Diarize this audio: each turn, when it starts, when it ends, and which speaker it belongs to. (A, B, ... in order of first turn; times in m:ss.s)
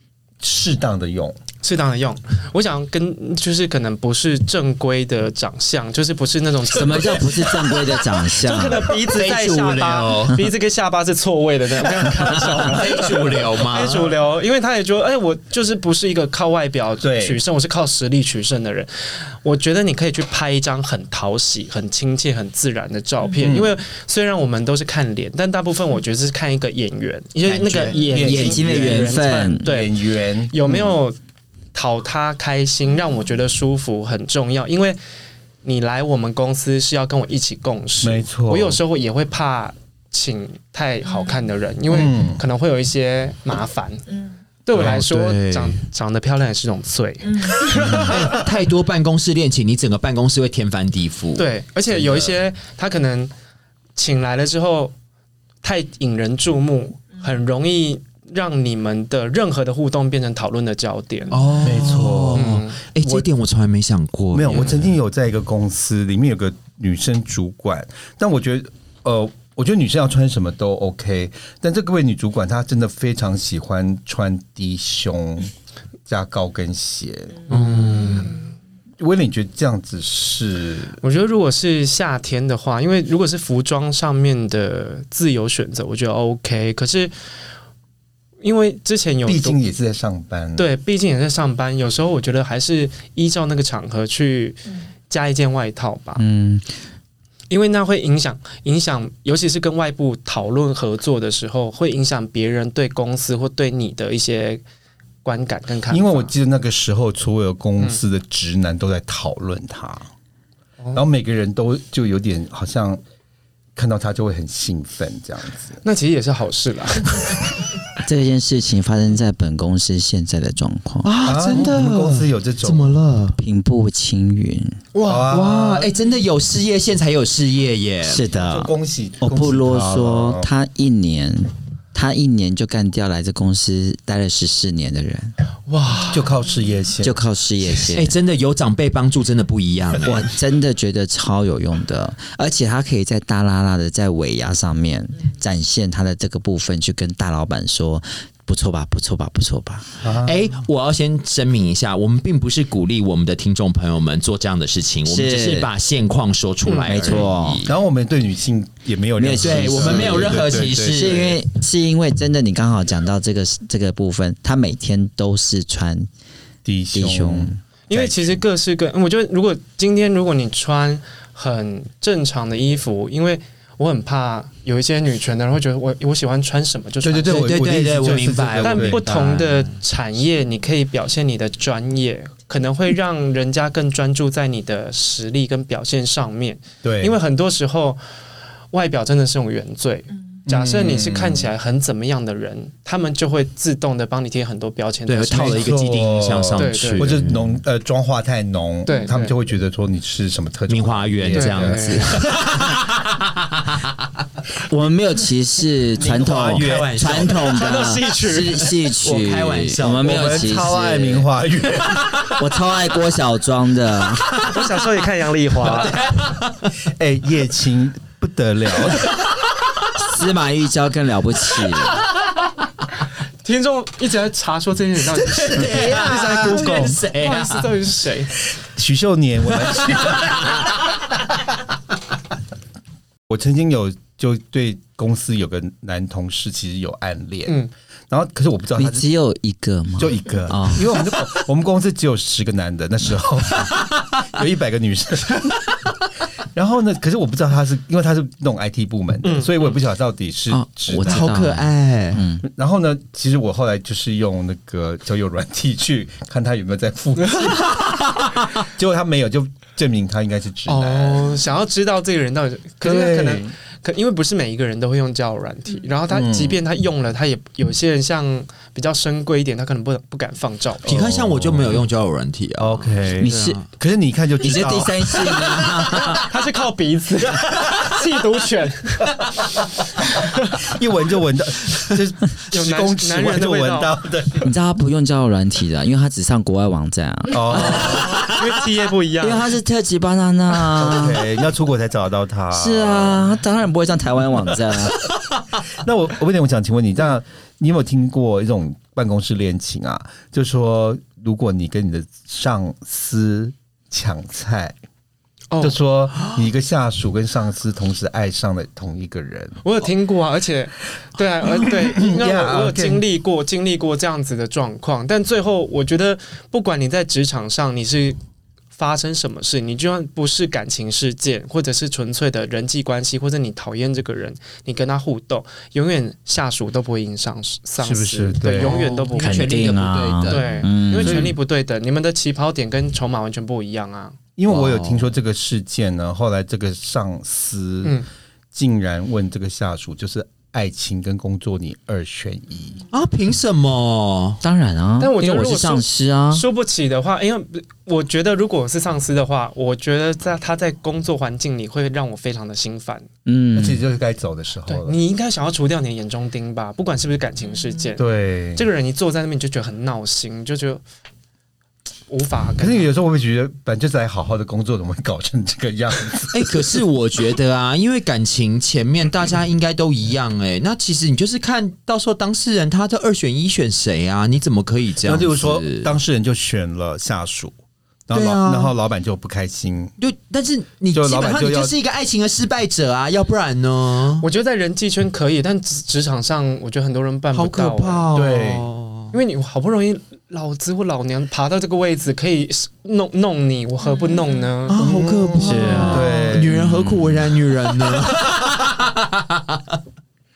0:00.4-0:01.4 A
0:01.6-0:31.2 B
0:06.7-0:08.9 C
0:09.0-0:10.4 D
0:12.5-0:14.1 D
0:17.0-0:17.4 A
0:23.4-0:23.8 A
0:27.4-0:28.5 D
0:28.1-0:30.8 A
0:28.1-0:29.6 C
0:31.7-0:35.0 B
0:35.6-0:44.1 B
0:38.0-0:38.8 A
0:41.9-0:42.4 A
0:44.6-0:48.1 B
0:44.7-0:45.8 D
0:47.8-0:48.1 A
0:47.8-0:52.4 D
0:51.4-0:53.3 B
0:54.0-0:54.9 B
0:55.6-1:01.4 B
1:01.3-1:04.9 D
1:01.6-1:03.3 A
1:02.3-1:02.8 B
1:04.3-1:15.5 A
1:16.1-1:17.5 A
1:17.5-1:18.3 D
1:17.5-1:18.4 B
1:19.0-1:21.0 A
1:21.0-1:27.1 B
1:28.4-1:29.6 B
1:29.2-1:30.6 A
1:30.6-1:36.2 B
1:36.2-1:36.7 C
1:37.5-1:44.6 B
1:45.2-1:46.3 B
1:45.9-1:50.1 A
1:50.9-1:53.0 A
1:53.8-1:55.8 A
1:55.8-1:57.4 B
1:58.0-2:01.1 C
2:01.0-2:03.4 D
2:01.2-2:03.0 A
2:03.4-2:04.8 C
2:04.9-2:05.3 B
2:05.0-2:05.9 A
2:05.2-2:08.2 D
2:08.0-2:15.3 C
2:08.3-2:10.5 A
2:15.7-2:16.3 B
2:16.1-2:17.2 A
2:17.0-2:18.2 C
2:17.8-2:20.2 D
2:20.0-2:30.0 C
2:30.0-2:30.4 A
2:30.2-2:37.7 D
2:35.0-2:35.7 C
2:36.6-2:37.0 B
2:36.9-2:37.6 C
2:37.6-2:41.4 A
2:39.2-2:46.1 C
2:39.4-2:41.3 D
2:46.6-2:48.4 A
2:46.9-2:47.6 C
2:47.9-3:08.0 B
2:57.0-2:59.0 A
2:57.3-2:59.8 D
3:06.8-3:07.1 A
3:08.7-3:15.7 B
3:10.4-3:11.5 A
3:15.1-3:17.6 D
3:15.3-3:22.6 A
3:16.6-3:17.2 B
3:18.8-3:19.3 B
3:20.7-3:23.9 D
3:21.3-3:22.2 B
3:24.7-3:31.3 C
3:26.0-3:27.4 A
3:26.5-3:27.4 D
3:27.4-3:28.7 B
3:29.0-3:30.4 D
3:30.0-3:32.3 A
3:32.4-3:34.4 C
3:34.5-3:36.0 B
3:35.8-3:36.7 D
3:36.8-3:39.2 A
3:39.9-3:42.0 C
3:43.4-3:48.3 B
3:45.1-3:47.7 D
3:45.6-3:46.9 A
3:48.6-3:50.6 A
3:53.3-3:59.0 A
3:58.8-4:00.9 C
4:00.0-4:05.7 A
4:06.5-4:11.3 A
4:09.2-4:09.5 B
4:10.5-4:12.4 C
4:11.0-4:12.2 D
4:12.4-4:17.8 A
4:18.6-4:21.4 A
4:20.7-4:30.9 B
4:22.8-4:23.5 A
4:26.1-4:26.6 A
4:30.8-4:31.8 A
4:30.8-4:33.6 D
4:32.6-4:35.6 A
4:33.2-4:33.6 C
4:34.4-4:36.2 C
4:35.5-4:36.2 D
4:36.2-4:39.2 B
4:37.3-4:37.9 A
4:40.2-4:40.6 B
4:40.6-4:44.5 A
4:42.5-4:44.0 B
4:44.4-4:48.2 C
4:47.3-4:48.3 A
4:47.5-4:49.5 B
4:49.2-4:51.2 C
4:50.7-4:53.3 A
4:52.5-4:55.1 C
4:55.7-5:04.8 A
5:05.5-5:05.8 B
5:05.6-5:09.6 A
5:09.6-5:18.2 B
5:11.6-5:13.0 A
5:18.7-5:34.2 B
5:27.8-5:28.9 A
5:28.6-5:30.7 D
5:29.2-5:31.3 C
5:31.0-5:31.3 A
5:34.4-5:38.0 A
5:34.5-5:35.1 D
5:38.5-5:42.8 A
5:42.9-5:44.4 D
5:44.4-5:46.4 C
5:45.0-5:53.1 B
5:53.2-5:53.8 C
5:53.5-5:55.0 A
5:54.7-6:00.8 B
5:58.0-5:58.6 A
6:02.1-6:02.9 B
6:02.6-6:06.7 A
6:06.3-6:15.9 D
6:15.0-6:17.5 A
6:18.1-6:19.9 A
6:18.1-6:18.7 D
6:20.0-6:24.2 D
6:20.9-6:21.7 A
6:24.2-6:28.1 B
6:27.3-6:29.1 D
6:28.1-6:28.7 A
6:29.1-6:34.8 B
6:34.7-6:39.7 D
6:34.7-6:36.7 A
6:35.4-6:37.3 C